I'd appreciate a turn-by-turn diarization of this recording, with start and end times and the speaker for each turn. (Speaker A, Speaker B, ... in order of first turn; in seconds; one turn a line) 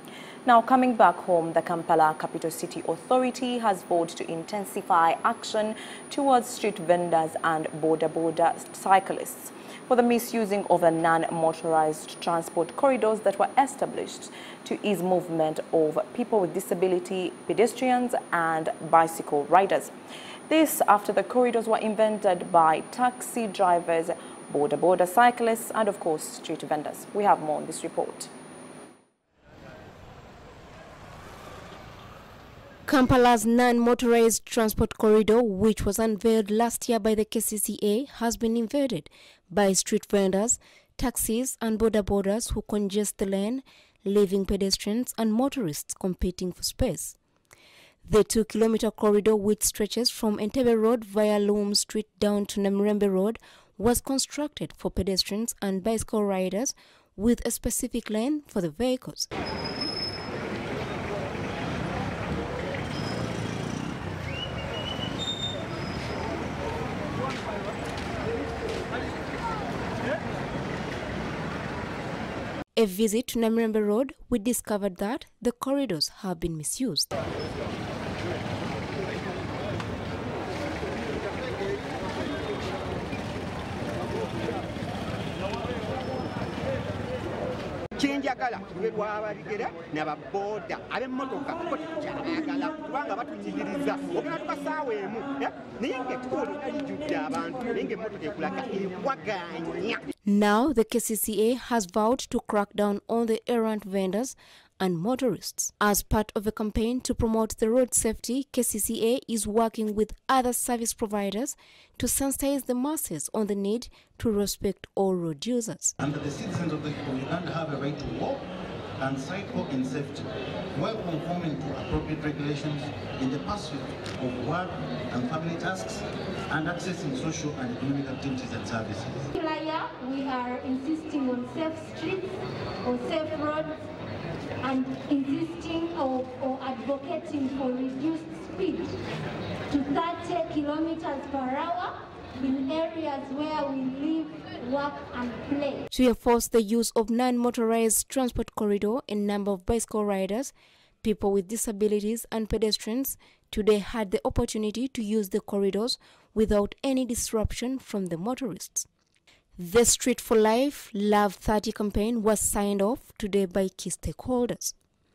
Speaker A: 0.5-19.9
Speaker A: 20.5-28.3
Speaker B: 32.9-47.2
Speaker B: 48.0-59.3
Speaker B: 72.8-77.1
Speaker C: 88.0-100.0
Speaker B: 100.2-116.0
Speaker D: 116.0-118.5
Speaker D: 119.0-129.3
Speaker E: 129.3-133.8
Speaker E: 134.6-139.0
Speaker E: 139.7-145.9
Speaker B: 145.9-158.9
Speaker B: 159.6-164.8